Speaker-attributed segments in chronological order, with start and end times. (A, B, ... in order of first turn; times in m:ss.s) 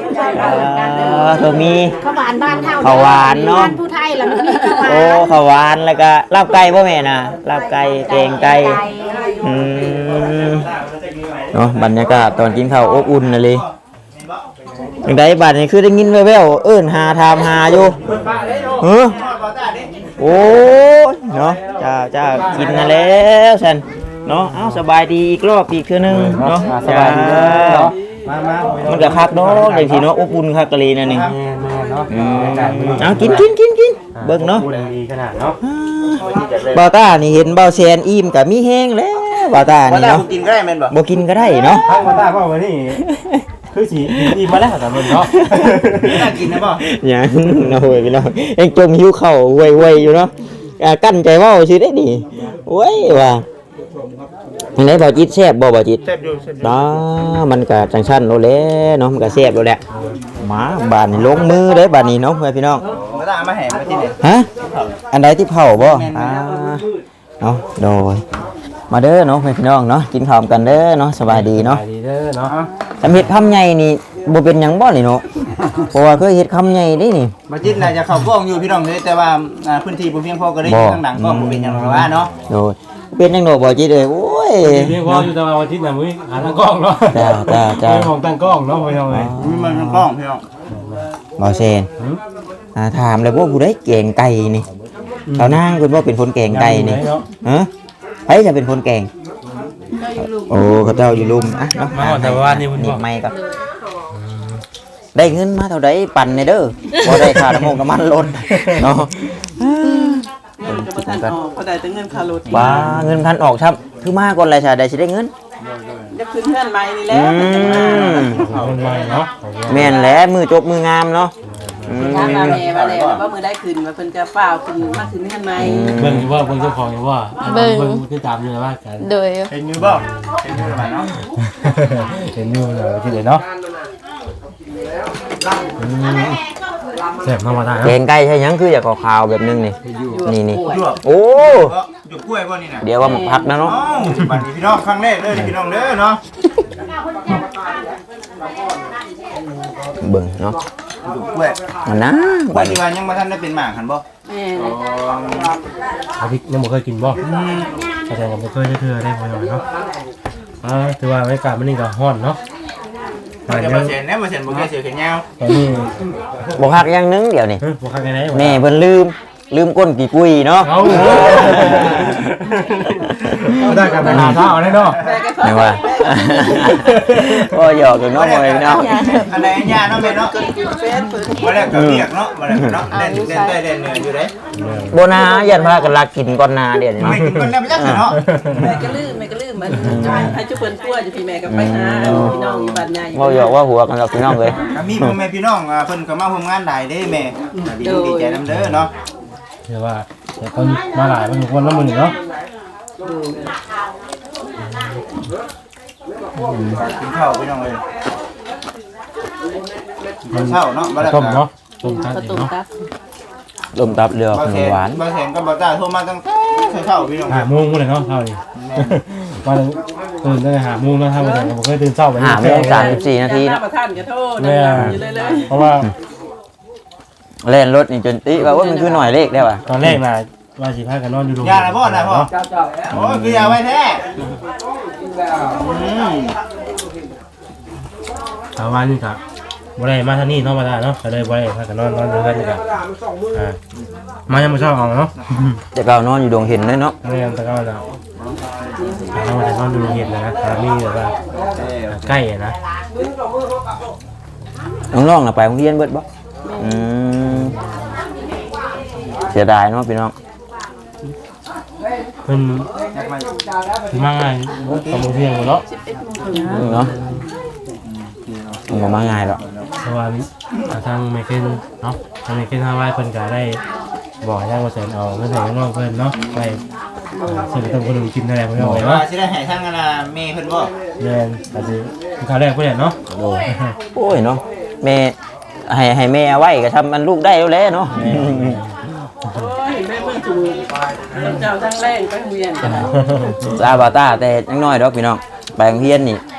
0:00.3-0:02.0 A
0:02.0-0:05.3 B
0:02.8-0:03.7 A
0:04.8-0:08.8 A
0:08.1-0:09.4 B
0:09.4-0:10.7 A
0:09.9-0:11.9 C
0:11.5-0:13.6 A
0:14.1-0:14.5 C
0:15.0-0:18.0 A
0:18.8-0:19.2 A
0:19.0-0:20.1 C
0:20.2-0:27.9 A
0:24.3-0:24.8 D
0:26.0-0:29.8 D
0:28.2-0:30.0 C
0:28.8-0:31.3 A
0:31.0-0:31.3 C
0:31.1-0:33.5 D
0:32.1-0:34.6 A
0:32.6-0:33.3 C
0:34.1-0:35.6 D
0:35.6-0:40.2 A
0:36.2-0:36.8 C
0:39.7-0:40.9 C
0:40.9-0:42.1 A
0:41.7-0:43.0 D
0:43.0-0:43.5 A
0:43.7-0:46.1 D
0:45.1-0:53.4 A
0:46.0-0:46.8 C
0:54.8-0:56.0 A
0:56.0-0:56.9 C
0:56.6-0:59.8 A
1:00.4-1:02.8 A
1:03.1-1:04.2 C
1:04.2-1:04.5 A
1:05.1-1:06.8 A
1:05.8-1:06.4 C
1:07.4-1:08.2 A
1:08.9-1:11.8 A
1:11.2-1:12.5 D
1:13.0-1:15.2 A
1:15.9-1:17.3 A
1:17.5-1:22.3 C
1:20.6-1:25.3 A
1:24.6-1:29.3 D
1:27.1-1:28.1 A
1:29.1-1:30.1 A
1:29.4-1:30.4 C
1:30.7-1:31.0 D
1:31.4-1:31.9 A
1:32.7-1:34.7 A
1:35.3-1:35.6 D
1:35.4-1:37.7 A
1:36.5-1:37.3 D
1:38.3-1:39.1 A
1:40.2-1:43.3 A
1:41.9-1:43.0 D
1:44.1-1:44.6 D
1:45.1-1:51.3 A
1:48.5-1:48.8 D
1:50.6-1:52.7 E
1:52.5-1:53.3 D
1:52.5-1:55.3 A
1:55.6-1:56.2 C
1:56.1-1:58.4 E
1:57.1-1:58.4 A
1:57.4-1:59.2 C
1:58.2-2:00.0 D
1:59.7-2:01.3 A
2:01.4-2:02.1 D
2:01.8-2:02.6 A
2:01.9-2:03.2 C
2:02.0-2:05.9 E
2:05.5-2:06.3 A
2:05.9-2:09.1 D
2:07.4-2:08.0 B
2:09.0-2:09.5 B
2:09.5-2:11.1 C
2:09.8-2:10.7 D
2:11.4-2:13.4 D
2:15.8-2:16.4 A
2:17.2-2:18.0 D
2:17.8-2:21.7 A
2:20.0-2:20.9 E
2:20.6-2:22.8 C
2:22.8-2:23.8 A
2:23.0-2:23.5 E
2:23.6-2:26.2 C
2:30.0-2:30.6 A
2:31.0-2:31.6 C
2:31.8-2:32.8 A
2:32.5-2:34.0 C
2:34.2-2:34.8 E
2:34.6-2:35.5 C
2:36.2-2:37.2 D
2:37.2-2:37.8 C
2:38.1-2:39.6 D
2:40.6-2:42.4 D
2:43.5-2:44.0 D
2:43.5-2:45.2 C
2:45.4-2:46.0 D
2:46.5-2:47.6 A
2:47.6-2:48.6 D
2:48.3-2:52.1 A
2:50.6-2:55.0 D
2:53.6-2:54.5 A
2:53.6-2:54.2 E
2:53.8-2:55.2 C
2:55.0-2:56.8 E
2:55.4-2:58.9 A
2:56.6-2:57.5 D
2:58.1-3:00.4 C
2:58.7-2:59.3 E
2:58.7-2:59.6 B
2:59.9-3:01.5 E
3:01.3-3:04.3 C
3:01.6-3:02.8 A
3:02.9-3:03.6 B
3:04.5-3:04.9 D
3:04.9-3:08.1 A
3:07.0-3:08.9 C
3:08.1-3:08.6 D
3:08.5-3:13.5 E
3:09.8-3:10.4 A
3:09.8-3:10.4 C
3:11.4-3:12.4 A
3:12.0-3:12.8 C
3:13.1-3:15.2 A
3:14.6-3:18.9 C
3:17.8-3:18.4 E
3:18.5-3:18.9 D
3:19.6-3:22.1 D
3:23.0-3:23.4 E
3:26.4-3:26.8 A
3:26.8-3:27.8 C
3:30.3-3:31.4 C
3:30.3-3:32.5 D
3:31.8-3:32.7 E
3:33.7-3:35.0 A
3:34.3-3:37.5 C
3:37.3-3:43.0 D
3:38.5-3:39.0 C
3:41.2-3:41.5 E
3:42.2-3:43.6 A
3:42.6-3:45.5 E
3:44.4-3:45.9 D
3:47.4-3:50.0 A
3:48.4-3:49.1 E
3:49.6-3:52.3 D
3:51.4-3:52.3 C
3:52.9-3:53.6 A
3:52.9-3:54.0 C
3:55.5-3:56.4 C
3:58.6-3:59.2 D
3:59.8-4:02.6 D
4:03.3-4:03.6 D
4:04.3-4:05.6 D
4:05.7-4:06.9 A
4:07.0-4:07.8 D
4:08.8-4:09.1 E
4:09.1-4:11.1 D
4:11.5-4:12.2 C
4:11.9-4:12.6 D
4:14.9-4:16.0 A
4:16.6-4:17.6 A
4:17.3-4:17.6 D
4:19.3-4:20.1 A
4:22.2-4:22.7 D
4:22.9-4:23.3 C
4:23.9-4:25.6 D
4:24.7-4:25.0 C
4:25.7-4:26.6 E
4:26.3-4:26.9 A
4:26.5-4:27.0 D
4:27.8-4:29.6 C
4:28.7-4:29.4 A
4:29.8-4:33.6 D
4:34.2-4:36.6 D
4:37.2-4:39.0 D
4:38.6-4:38.8 A
4:38.8-4:40.7 C
4:41.0-4:43.0 D
4:43.1-4:43.4 A
4:43.9-4:45.1 A
4:45.7-4:48.6 A
4:47.9-4:48.7 D
4:49.3-4:53.1 E
4:52.6-4:53.6 D
4:53.4-4:56.2 A